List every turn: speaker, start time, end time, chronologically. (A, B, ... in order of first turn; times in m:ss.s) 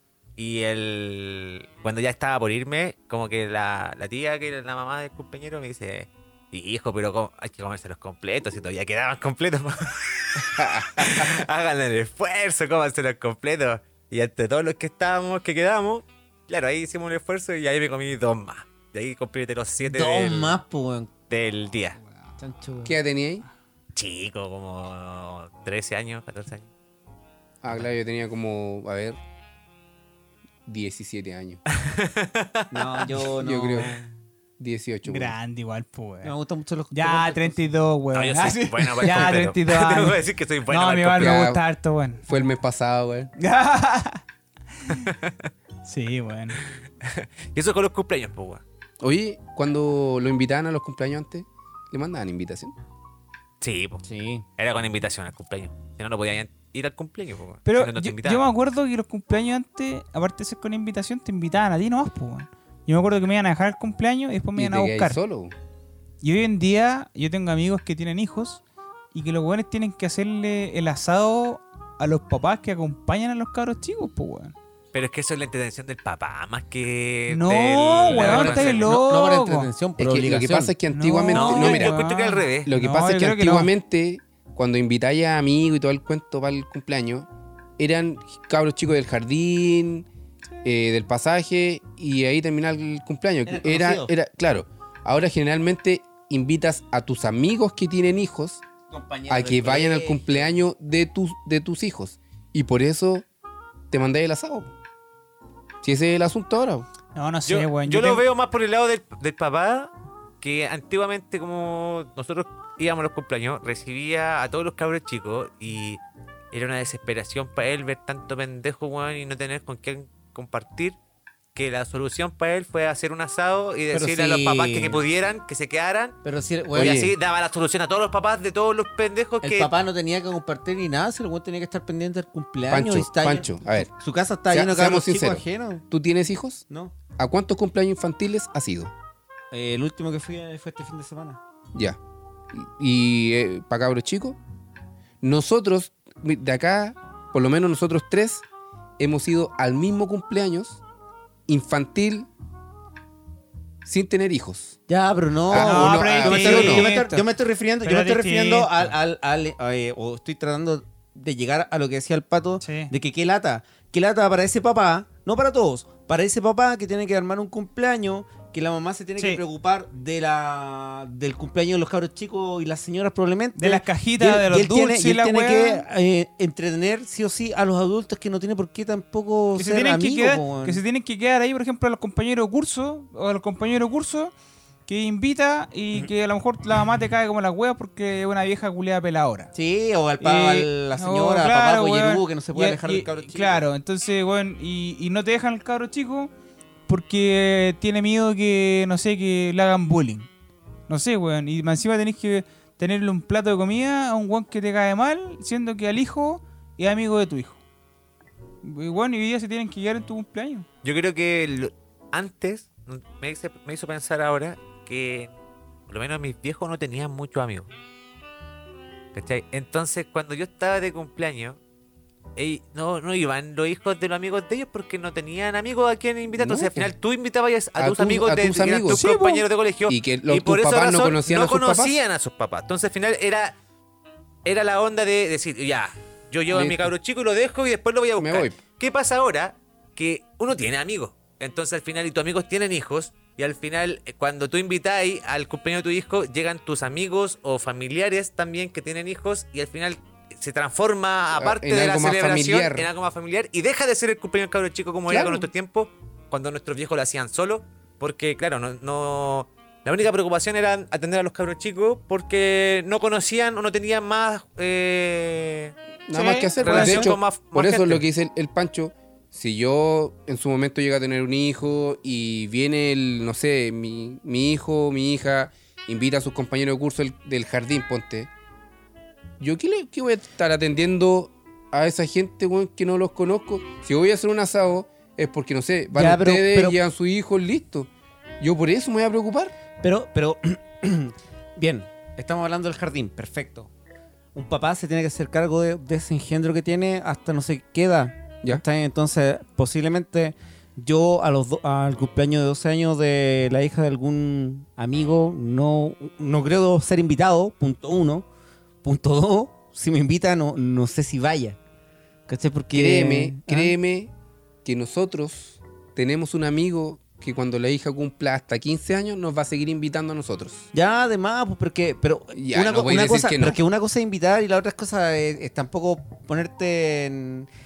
0:00.4-0:20.6 A
0:10.6-0:11.4 B
0:19.8-0:21.1 C
0:21.3-0:22.0 A
0:22.4-0:22.9 C
0:22.8-0:23.4 B
0:23.9-0:26.7 A
0:27.6-0:29.2 B
0:30.6-0:31.6 B
0:31.7-0:33.2 A
0:32.7-0:34.0 C
0:33.3-0:33.9 B
0:34.6-0:35.4 B
0:35.0-0:36.3 D
0:36.2-0:37.6 C
0:36.9-0:42.2 D
0:38.1-0:41.4 A
0:41.2-0:41.6 B
0:42.2-0:43.3 B
0:43.4-0:44.2 D
0:45.0-0:45.5 A
0:45.8-0:46.6 D
0:46.6-0:48.6 A
0:49.0-0:52.7 B
0:53.6-0:54.0 A
0:54.0-0:54.4 C
0:54.6-0:58.4 A
0:57.6-1:05.2 D
1:04.6-1:05.5 B
1:06.2-1:08.6 D
1:09.1-1:14.5 D
1:14.9-1:19.0 A
1:17.3-1:19.7 D
1:18.1-1:20.7 C
1:20.0-1:22.0 B
1:20.9-1:23.7 D
1:21.3-1:22.7 A
1:22.6-1:30.0 B
1:30.6-1:38.6 B
1:33.5-1:34.1 C
1:38.9-1:40.5 C
1:39.3-1:43.2 B
1:43.9-1:44.7 B
1:45.8-1:46.9 B
1:47.2-1:48.2 D
1:47.5-1:56.0 A
1:56.5-2:01.0 A
2:01.5-2:06.2 A
2:03.9-2:05.0 C
2:06.2-2:07.0 C
2:06.7-2:09.7 A
2:06.7-2:07.1 B
2:09.4-2:15.8 C
2:12.7-2:13.9 B
2:14.5-2:16.6 B
2:16.7-2:16.9 C
2:17.2-2:18.9 B
2:19.5-2:21.4 C
2:22.5-2:24.4 B
2:25.2-2:28.4 B
2:29.0-2:30.8 B
2:31.5-2:32.3 B
2:33.8-2:34.8 B
2:34.9-3:00.8 C
2:35.5-2:36.9 B
2:35.5-2:37.2 D
2:37.8-2:38.9 D
2:42.6-2:42.9 D
2:53.6-2:55.8 D
2:59.6-3:04.3 D
3:04.9-3:09.5 D
3:09.5-3:13.6 C
3:10.2-3:16.3 D
3:16.9-3:20.3 D
3:20.9-3:27.6 D
3:28.6-3:30.6 D
3:30.8-3:35.3 A
3:35.9-3:37.7 A
3:39.1-3:41.6 A
3:42.4-3:53.6 A
3:46.3-3:46.9 B
3:47.8-3:49.0 B
3:48.9-3:49.4 D
3:49.9-3:52.0 B
3:54.4-4:25.7 A
3:56.5-3:56.9 B
3:58.2-3:58.6 B
4:11.3-4:12.9 B
4:15.1-4:15.5 B
4:26.1-4:38.3 B
4:26.1-4:27.1 D
4:26.6-4:28.0 A
4:39.4-4:49.6 B
4:45.9-4:46.8 C
4:49.8-4:53.7 C
4:54.3-5:08.3 C
5:08.8-5:11.6 C
5:12.3-5:13.7 C
5:12.7-5:14.1 B
5:14.6-5:20.7 B
5:20.7-5:27.5 C
5:22.3-5:23.6 B